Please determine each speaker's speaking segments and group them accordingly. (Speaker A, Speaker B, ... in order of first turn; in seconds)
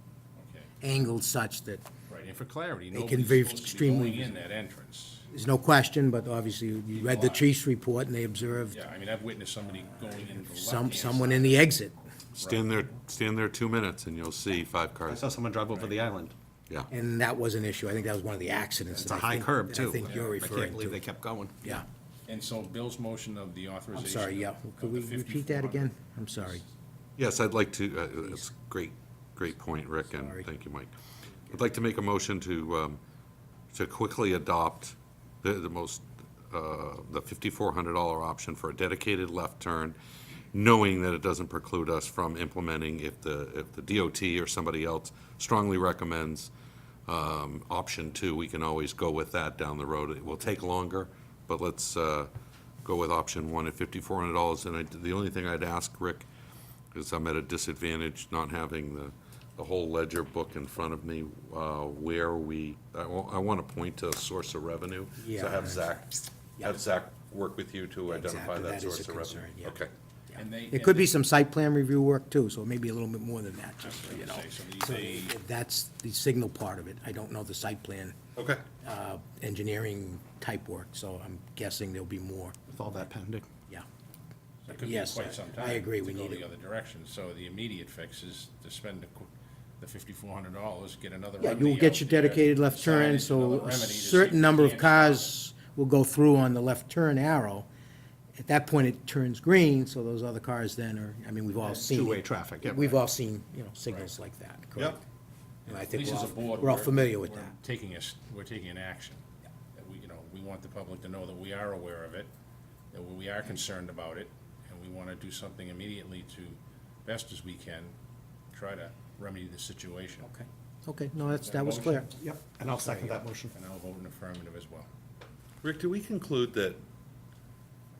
Speaker A: 0.4-0.7, 2.1-5.3, 6.9-7.5, 8.7-11.6, 12.4-12.7, 20.0-20.4, 22.3-25.9, 70.4-71.1, 73.8-75.3, 84.7-95.3, 105.7-109.2, 109.8-112.3, 112.9-118.0, 118.5-120.3, 121.2-122.1, 123.5-124.9
Speaker B: 0.8-1.9, 2.9-4.3, 5.3-8.8, 10.2-11.9, 16.9-21.0, 23.9-26.6, 30.2-30.4, 65.2-66.0, 68.1-78.2, 78.8-82.5, 84.8-86.4, 91.4-97.7, 98.4-105.0, 105.7-107.5, 120.2-122.1
Speaker C: 12.4-15.2, 27.2-30.9, 31.5-33.0, 33.7-40.0, 40.5-46.5, 47.1-52.3, 52.8-56.3, 56.9-69.9, 78.4-78.6, 125.6-126.8
Speaker D: 15.1-16.3, 18.9-21.8, 82.7-83.5, 101.6-103.0, 122.2-123.5